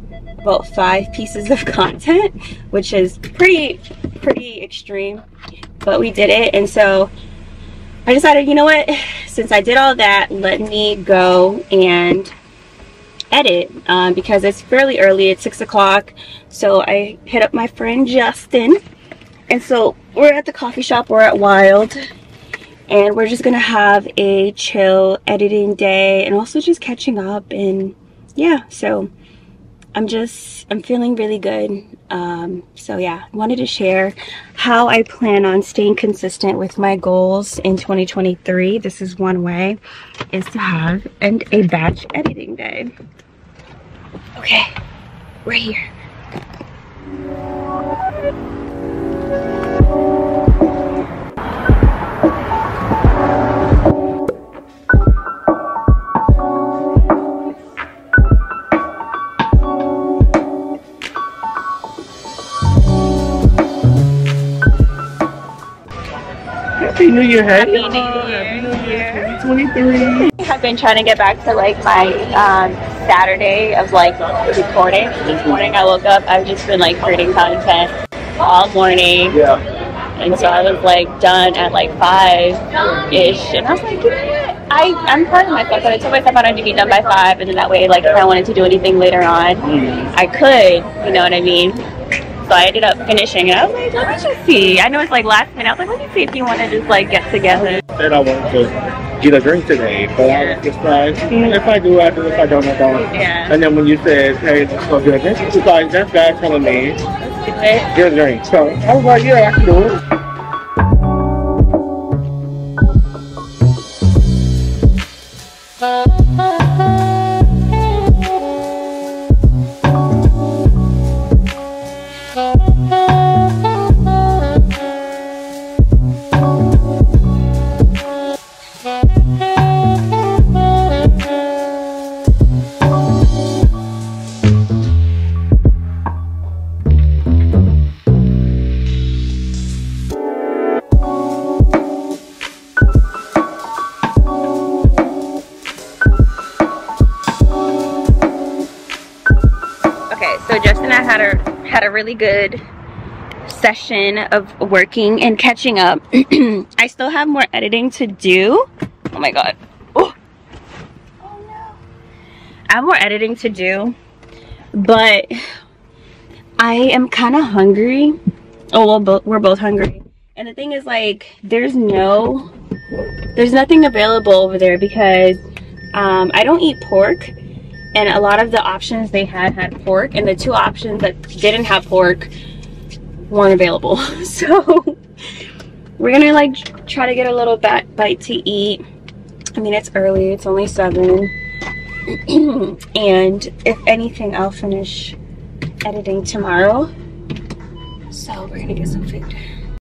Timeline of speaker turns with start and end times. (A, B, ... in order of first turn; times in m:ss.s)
0:00.4-0:05.2 A
0:05.8-0:07.1 A
0:08.0-0:12.3 A
0:13.3-0:18.8 A
0:19.5-0:22.0 A
0:22.9-0:29.1 A
0:29.9-0:39.8 A
0:40.3-0:42.9 A
0:44.4-0:44.7 A
0:45.4-0:45.8 A
1:06.8-1:10.3 B
1:07.5-1:09.3 A
1:10.2-1:19.4 A
1:20.2-1:31.8 A
1:29.7-1:30.1 B
1:32.5-1:37.8 A
1:37.9-1:47.0 B
1:40.2-1:40.6 A
1:43.0-1:43.6 A
1:47.2-1:47.9 A
1:47.9-1:50.0 B
2:30.1-2:32.6 A
2:33.4-2:40.1 A
2:41.2-2:41.8 A
2:42.7-2:44.0 A
2:44.7-2:45.4 A
2:46.6-2:48.2 A
2:48.7-2:52.5 A
2:53.3-2:57.3 A
2:57.9-3:02.3 A
3:03.3-3:05.0 A
3:06.0-3:08.8 A
3:09.5-3:11.3 A
3:12.1-3:15.2 A
3:15.8-3:16.9 A
3:18.1-3:19.4 A